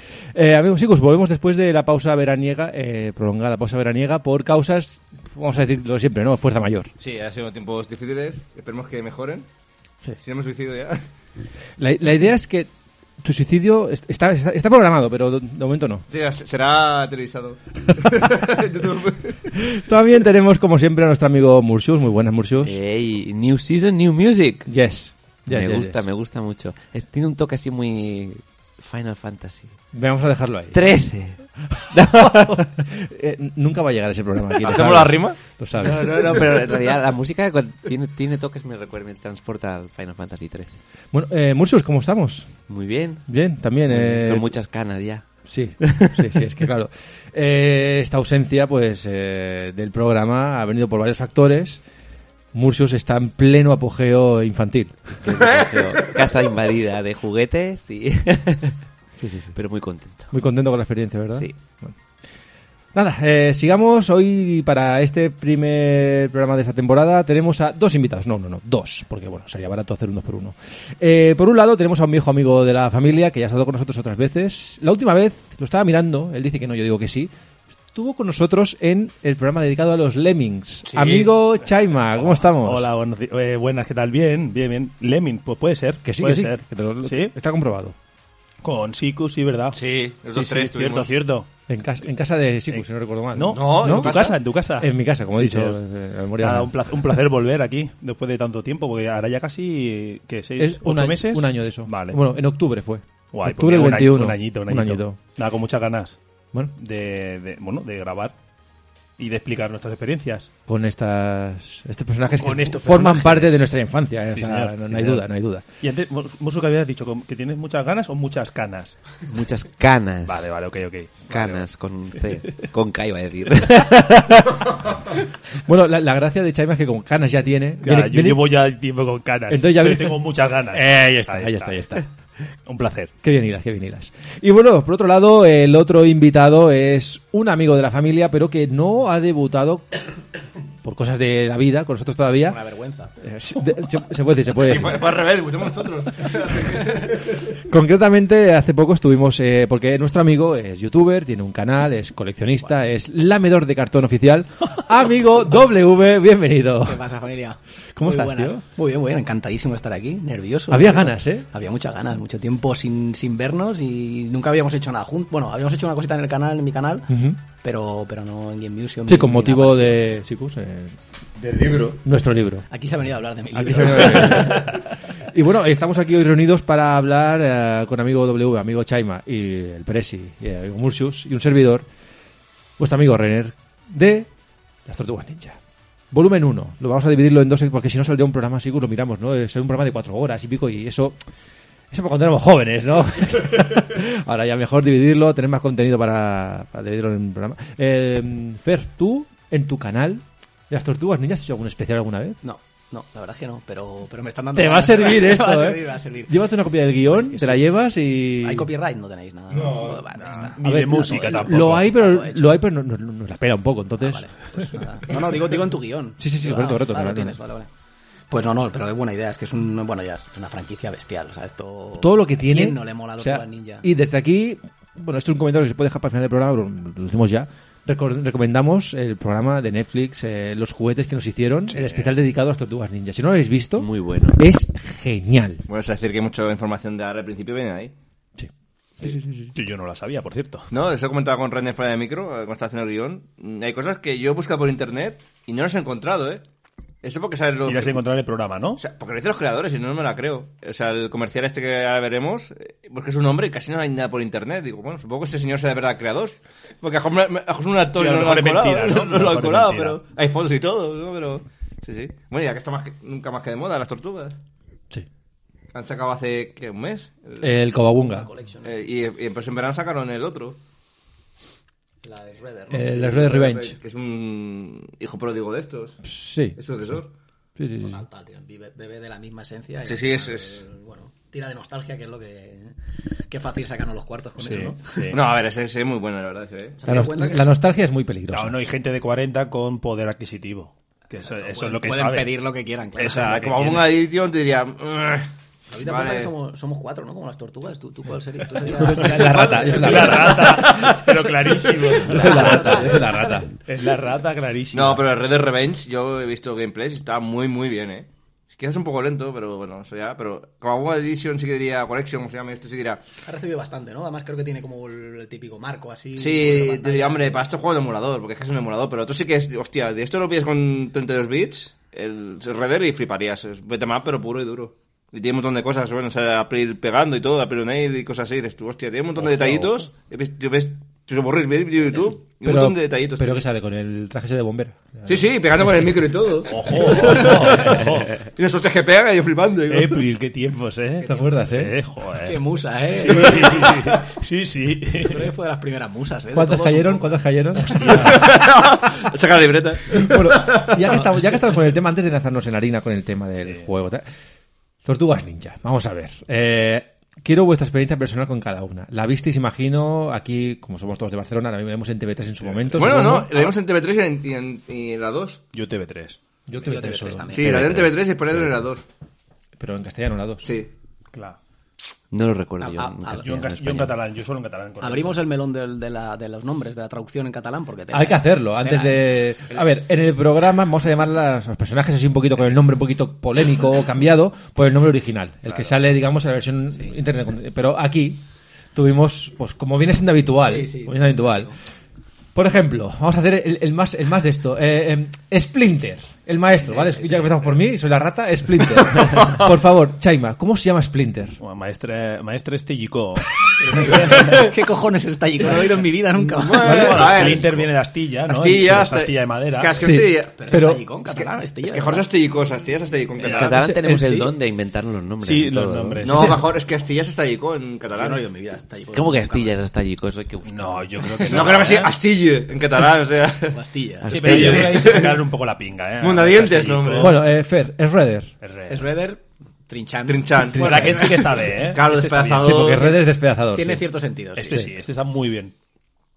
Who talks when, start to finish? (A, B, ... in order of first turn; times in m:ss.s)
0:00.3-0:06.9 A
0:07.0-0:09.5 B
0:10.2-0:11.0 B
0:11.8-0:12.7 A
0:13.2-0:16.0 A
0:16.1-0:19.5 B
0:19.5-0:22.8 A
0:22.6-0:24.7 C
0:24.7-0:26.0 A
0:25.5-0:29.8 C
0:29.9-0:30.8 A
0:30.7-0:32.7 C
0:31.8-0:36.6 A
0:34.6-0:35.4 B
0:35.8-0:40.8 C
0:41.1-0:42.6 A
0:42.7-0:43.3 C
0:43.3-0:44.5 A
0:43.9-0:45.2 C
0:45.5-0:51.8 A
0:45.8-0:46.2 C
0:52.5-0:55.3 A
0:55.2-0:58.8 C
0:55.4-0:56.4 B
0:59.2-0:59.5 A
0:59.5-1:00.3 C
1:00.3-1:01.9 A
1:02.9-1:17.3 A
1:17.9-1:22.9 A
1:20.9-1:21.3 B
1:22.1-1:27.3 D
1:26.0-1:27.9 A
1:28.6-1:31.5 D
1:29.7-1:31.1 B
1:31.7-1:34.2 A
1:32.7-1:35.8 D
1:33.5-1:34.4 B
1:34.8-1:36.7 A
1:36.4-1:42.2 D
1:40.6-1:45.2 A
1:43.3-1:46.2 D
1:46.8-1:48.3 D
1:49.2-1:50.5 D
1:50.7-1:55.6 A
1:52.3-1:55.3 D
1:55.8-1:59.2 D
1:59.3-2:00.5 C
2:00.2-2:01.6 D
2:01.3-2:04.7 C
2:02.2-2:02.7 D
2:05.6-2:08.5 A
2:07.8-2:11.9 D
2:09.5-2:10.2 A
2:10.7-2:12.0 A
2:12.7-2:13.1 D
2:13.2-2:19.9 A
2:20.8-2:22.6 A
2:22.4-2:23.1 E
2:23.2-2:25.1 A
2:24.6-2:27.4 B
2:27.5-2:37.0 A
2:36.8-2:50.1 E
2:37.9-2:38.6 A
2:40.7-2:41.5 A
2:47.1-2:47.4 A
2:49.1-2:51.0 A
2:51.4-2:52.0 B
2:52.0-2:52.6 A
2:52.7-2:54.6 E
2:53.5-3:01.9 A
2:53.8-2:54.5 B
3:02.8-3:04.3 A
3:04.8-3:05.6 A
3:06.1-3:11.2 A
3:11.9-3:22.4 A
3:22.4-3:27.6 E
3:24.5-3:28.7 A
3:28.4-3:32.6 E
3:29.5-3:30.0 B
3:30.1-3:31.9 D
3:30.6-3:34.6 A
3:34.0-3:37.7 E
3:36.2-3:37.4 A
3:38.3-3:43.9 E
3:42.0-3:55.6 A
3:51.7-3:52.1 D
3:53.8-3:54.4 C
3:55.7-3:57.9 B
3:58.4-3:59.5 A
3:59.5-4:00.7 D
4:00.7-4:06.4 B
4:07.0-4:08.0 B
4:07.6-4:08.8 D
4:08.8-4:24.4 B
4:17.9-4:20.0 D
4:25.7-4:27.5 B
4:27.4-4:28.3 A
4:28.0-4:28.9 E
4:28.6-4:30.6 B
4:32.0-4:33.1 E
4:32.7-4:33.8 A
4:32.9-4:36.0 B
4:36.0-4:36.6 A
4:36.6-4:37.1 B
4:37.6-4:38.0 A
4:37.8-4:42.7 E
4:39.8-4:40.6 B
4:43.3-4:45.0 E
4:44.4-4:45.2 D
4:45.1-4:47.0 B
4:46.8-4:47.5 E
4:46.8-4:48.6 A
4:48.3-4:52.4 D
4:51.2-4:53.5 E
4:53.0-4:54.0 D
4:53.0-4:56.3 B
4:55.7-4:59.9 E
4:58.6-5:01.0 A
4:59.1-5:01.5 B
4:59.6-5:03.0 D
5:01.9-5:03.5 A
5:02.1-5:03.4 E
5:03.6-5:05.0 D
5:04.7-5:13.0 B
5:13.2-5:17.4 E
5:16.2-5:33.4 B
5:32.4-5:35.2 A
5:35.0-5:40.0 B
5:36.5-5:38.2 D
5:39.7-5:45.3 D
5:41.0-5:41.7 A
5:42.1-5:44.0 E
5:45.0-5:48.3 E
5:46.3-5:49.1 A
5:47.9-5:48.2 D
5:47.9-5:50.9 B
5:49.8-5:54.0 A
5:53.4-5:53.7 D
5:54.8-6:03.4 A
6:02.4-6:03.1 D
6:02.8-6:05.4 B
6:05.5-6:06.2 D
6:06.5-6:08.6 A
6:06.6-6:07.6 E
6:07.3-6:08.8 B
6:07.4-6:07.9 C
6:09.6-6:10.5 A
6:10.4-6:10.7 B
6:11.1-6:11.4 D
6:12.1-6:13.9 C
6:12.6-6:13.2 E
6:13.2-6:15.2 D
6:14.8-6:19.6 E
6:17.9-6:28.2 A
6:28.7-6:31.5 A
6:30.4-6:31.5 E
6:32.3-6:41.4 A
6:36.8-6:37.4 E
6:41.4-6:44.3 D
6:43.6-6:46.9 E
6:46.4-6:47.7 B
6:46.6-6:49.8 D
6:46.9-6:47.3 A
6:48.3-6:50.3 B
6:49.8-6:50.8 A
6:50.3-6:52.1 E
6:51.1-6:53.6 B
6:53.2-6:53.6 D
6:53.2-6:56.2 C
6:53.5-6:54.2 A
6:55.2-6:56.4 D
6:56.0-6:58.2 B
6:57.9-6:59.6 E
6:58.9-7:01.6 C
7:00.4-7:01.9 D
7:01.2-7:03.6 B
7:03.5-7:05.2 E
7:04.0-7:04.9 C
7:04.1-7:07.2 D
7:04.2-7:05.2 B
7:06.0-7:07.1 B
7:07.0-7:08.3 A
7:08.4-7:08.9 D
7:08.7-7:11.5 E
7:10.1-7:13.0 B
7:10.5-7:12.8 D
7:10.6-7:10.9 A
7:12.4-7:13.9 A
7:13.5-7:14.6 E
7:14.4-7:15.5 D